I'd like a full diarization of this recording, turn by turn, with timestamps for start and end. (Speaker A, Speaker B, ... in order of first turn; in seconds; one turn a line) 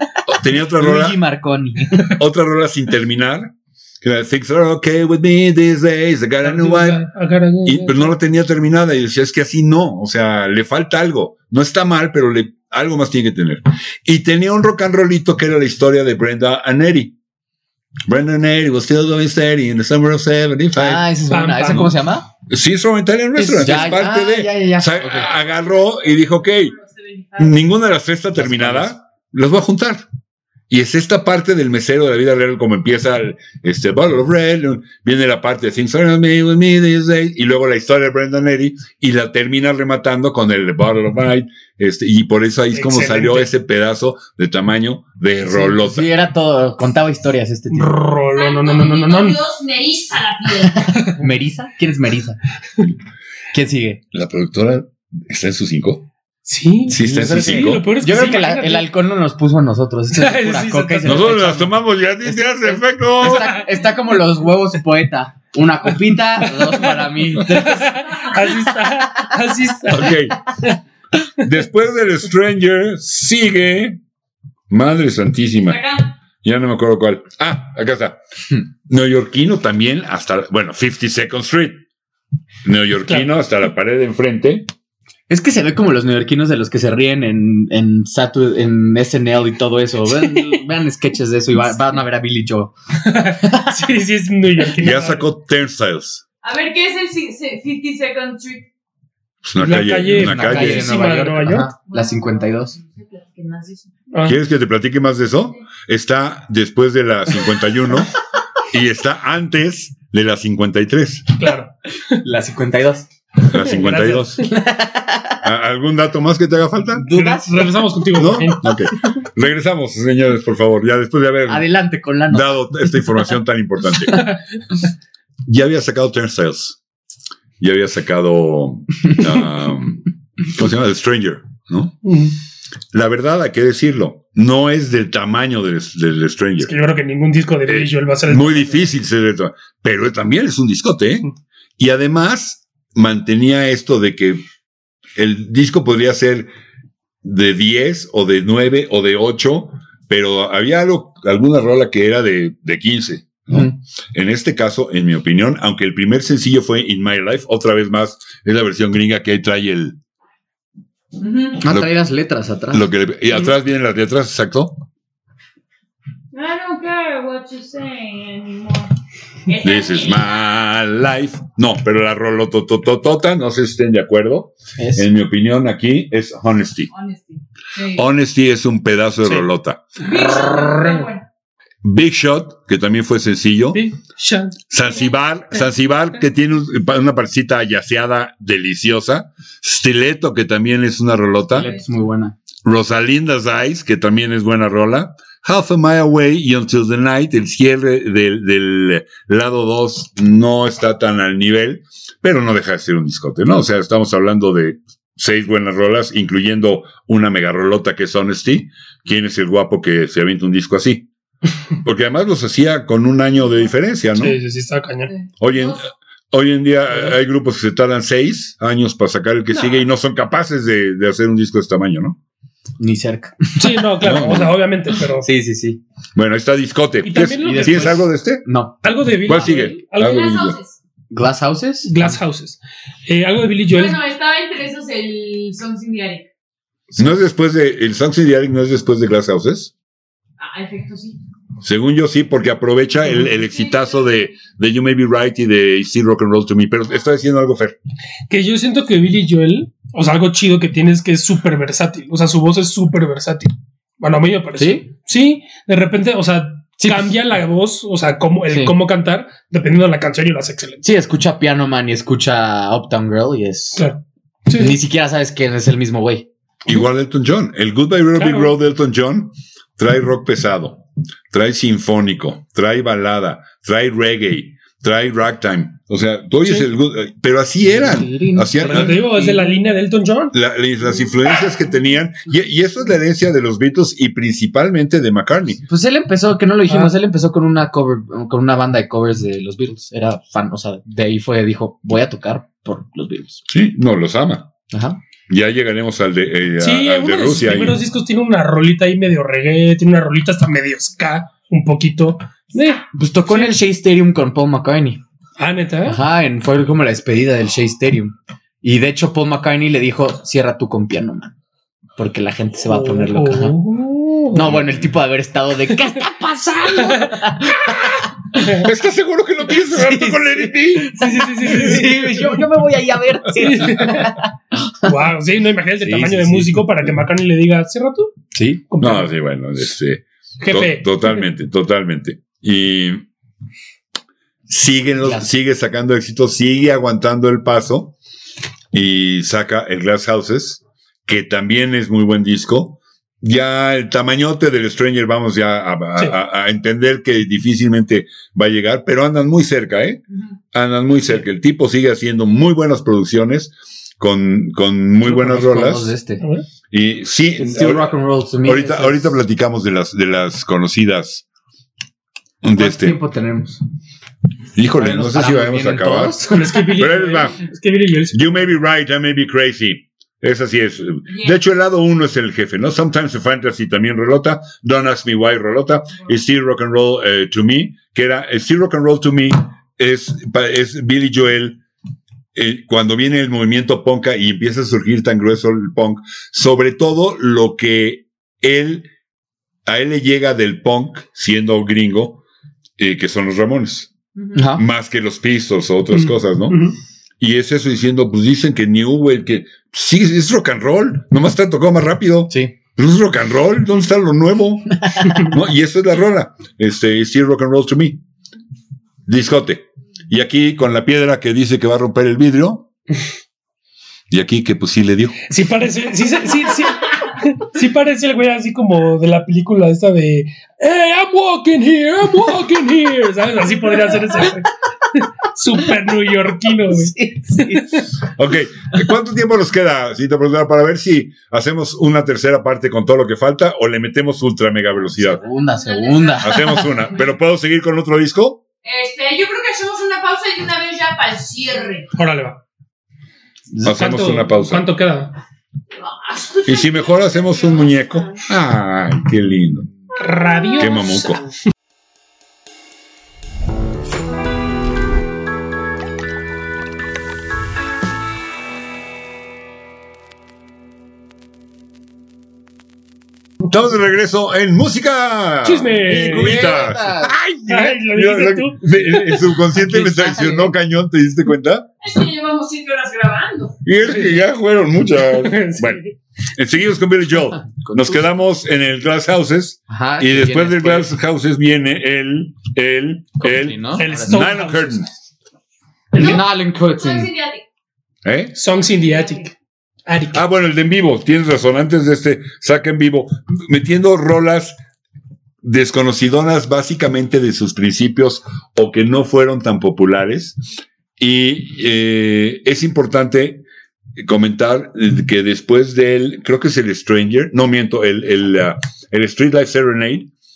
Speaker A: 0.2-1.2
Speaker B: 0.7-2.1
Speaker A: 2.1-7.0
Speaker C: 6.4-8.1
Speaker A: 7.6-17.1
Speaker A: 18.1-21.1
Speaker B: 20.7-22.3
Speaker C: 21.3-21.9
Speaker A: 22.5-26.7
Speaker C: 23.4-23.8
Speaker B: 23.5-25.3
Speaker D: 25.3-27.6
Speaker A: 27.4-30.0
Speaker B: 28.4-28.9
Speaker A: 30.7-46.1
Speaker C: 42.7-43.5
Speaker B: 45.4-48.0
Speaker C: 47.7-49.4
Speaker D: 48.3-51.1
Speaker B: 51.0-52.4
Speaker B: 53.5-54.0
Speaker A: 54.1-56.1
Speaker C: 56.4-58.9
Speaker A: 56.9-57.9
Speaker B: 56.9-61.7
Speaker C: 60.1-61.4
Speaker A: 61.0-63.6
Speaker B: 62.2-68.2
Speaker C: 63.2-63.6
Speaker C: 66.4-70.8
Speaker A: 69.9-70.4
Speaker A: 71.4-74.0
Speaker A: 74.7-75.8
Speaker D: 75.6-76.1
Speaker A: 76.4-78.2
Speaker A: 78.8-81.8
Speaker A: 82.6-84.7
Speaker B: 85.3-92.7
Speaker C: 90.2-90.6
Speaker C: 93.0-95.3
Speaker B: 93.4-93.7
Speaker A: 94.8-96.2
Speaker D: 96.4-98.7
Speaker A: 99.4-100.9
Speaker C: 99.6-101.7
Speaker B: 100.2-102.8
Speaker D: 101.9-103.9
Speaker C: 104.1-104.4
Speaker A: 104.2-108.1
Speaker A: 108.7-111.3
Speaker C: 111.4-112.2
Speaker B: 112.2-113.1
Speaker A: 113.5-114.5
Speaker C: 113.5-114.4
Speaker B: 114.5-115.4
Speaker A: 115.4-117.0
Speaker B: 117.0-117.7
Speaker C: 117.1-118.9
Speaker A: 118.1-121.7
Speaker B: 121.5-122.7
Speaker A: 122.3-124.2
Speaker A: 125.5-126.8
Speaker A: 127.6-132.0
Speaker C: 132.0-132.3
Speaker A: 132.9-136.7
Speaker C: 136.6-138.9
Speaker A: 137.7-144.4
Speaker A: 145.2-146.5
Speaker A: 147.2-160.0
Speaker D: 161.2-161.5
Speaker B: 161.5-162.9
Speaker A: 161.6-161.9
Speaker A: 162.7-164.8
Speaker D: 166.3-168.9
Speaker D: 169.4-170.5
Speaker A: 169.6-176.9
Speaker B: 174.8-175.1
Speaker D: 176.9-178.1
Speaker A: 177.9-179.8
Speaker D: 180.0-181.2
Speaker C: 180.0-181.1
Speaker A: 181.8-183.8
Speaker C: 183.7-184.6
Speaker A: 184.7-191.7
Speaker D: 184.8-185.1
Speaker B: 191.5-192.3
Speaker A: 192.6-211.1
Speaker A: 211.8-214.4
Speaker C: 214.2-215.1
Speaker D: 215.2-215.8
Speaker A: 215.4-222.2
Speaker B: 222.8-223.8
Speaker C: 223.6-225.3
Speaker A: 224.0-224.6
Speaker B: 225.2-225.8
Speaker A: 226.1-228.4
Speaker C: 227.0-228.0
Speaker B: 227.4-229.5
Speaker C: 228.8-230.2
Speaker A: 229.2-230.6
Speaker D: 230.0-230.8
Speaker B: 231.1-232.2
Speaker C: 231.8-234.0
Speaker D: 233.7-236.3
Speaker A: 236.9-239.7
Speaker D: 240.4-241.2
Speaker A: 241.6-247.8
Speaker D: 243.5-243.9
Speaker C: 248.3-260.8
Speaker B: 254.6-254.9
Speaker B: 256.8-257.1
Speaker B: 258.5-258.7
Speaker B: 260.8-263.9
Speaker C: 263.8-264.8
Speaker B: 264.5-266.3
Speaker A: 266.6-279.0
Speaker C: 268.1-268.5
Speaker B: 277.6-279.6
Speaker C: 278.6-280.3
Speaker A: 280.3-285.6
Speaker B: 285.6-293.4
Speaker A: 293.5-294.5
Speaker B: 294.7-295.0
Speaker A: 295.3-297.8
Speaker C: 296.6-303.5
Speaker B: 302.9-305.0
Speaker C: 305.4-306.0
Speaker B: 305.9-311.3
Speaker B: 312.0-313.6
Speaker C: 312.7-314.5
Speaker B: 314.3-318.4
Speaker A: 314.5-314.8
Speaker C: 316.8-317.2
Speaker C: 318.4-318.7
Speaker A: 318.6-321.0
Speaker B: 319.9-324.3
Speaker C: 320.9-322.4
Speaker C: 323.3-324.2
Speaker C: 324.8-328.1
Speaker A: 325.8-327.0
Speaker B: 328.3-328.6
Speaker C: 328.7-329.1
Speaker A: 328.8-333.1
Speaker C: 330.4-331.2
Speaker A: 334.5-337.9
Speaker B: 335.0-335.3
Speaker A: 338.7-350.0
Speaker A: 350.5-355.9
Speaker B: 355.0-356.2
Speaker A: 356.7-361.2
Speaker B: 357.4-359.2
Speaker A: 362.4-363.0
Speaker B: 362.6-363.6
Speaker A: 364.6-366.2
Speaker B: 364.7-366.6
Speaker C: 366.3-368.5
Speaker A: 366.7-367.4
Speaker A: 368.1-381.6
Speaker D: 371.1-371.4
Speaker A: 382.3-388.9
Speaker A: 389.6-392.2
Speaker A: 392.8-393.9
Speaker B: 394.3-394.6
Speaker A: 394.5-396.6
Speaker C: 395.9-396.8
Speaker A: 397.2-408.0
Speaker A: 409.1-412.7
Speaker A: 414.1-415.2
Speaker C: 415.3-427.8
Speaker B: 426.7-427.8
Speaker A: 428.0-435.2
Speaker B: 435.0-436.7
Speaker D: 435.3-437.1
Speaker A: 436.2-438.4
Speaker D: 438.6-441.9
Speaker C: 441.9-442.4
Speaker B: 443.5-443.8
Speaker A: 443.6-444.7
Speaker C: 443.7-445.1
Speaker D: 445.7-448.2
Speaker A: 446.4-449.7
Speaker C: 450.0-451.3
Speaker A: 450.6-451.2
Speaker A: 463.5-471.7
Speaker C: 465.4-466.6
Speaker B: 465.9-467.1
Speaker C: 467.5-469.3
Speaker B: 469.5-470.5
Speaker D: 471.8-473.6
Speaker A: 473.6-475.8
Speaker C: 473.9-474.2
Speaker C: 475.0-475.9
Speaker A: 476.3-484.9
Speaker B: 477.6-478.0
Speaker B: 479.7-480.9
Speaker B: 483.2-484.6
Speaker C: 483.8-484.8
Speaker B: 485.9-487.1
Speaker D: 485.9-486.2
Speaker D: 486.8-487.4
Speaker A: 488.0-488.3
Speaker C: 488.3-489.3
Speaker D: 488.8-489.2
Speaker C: 489.9-490.2
Speaker A: 490.1-494.6
Speaker A: 495.4-500.4
Speaker A: 501.0-503.4
Speaker A: 504.0-510.1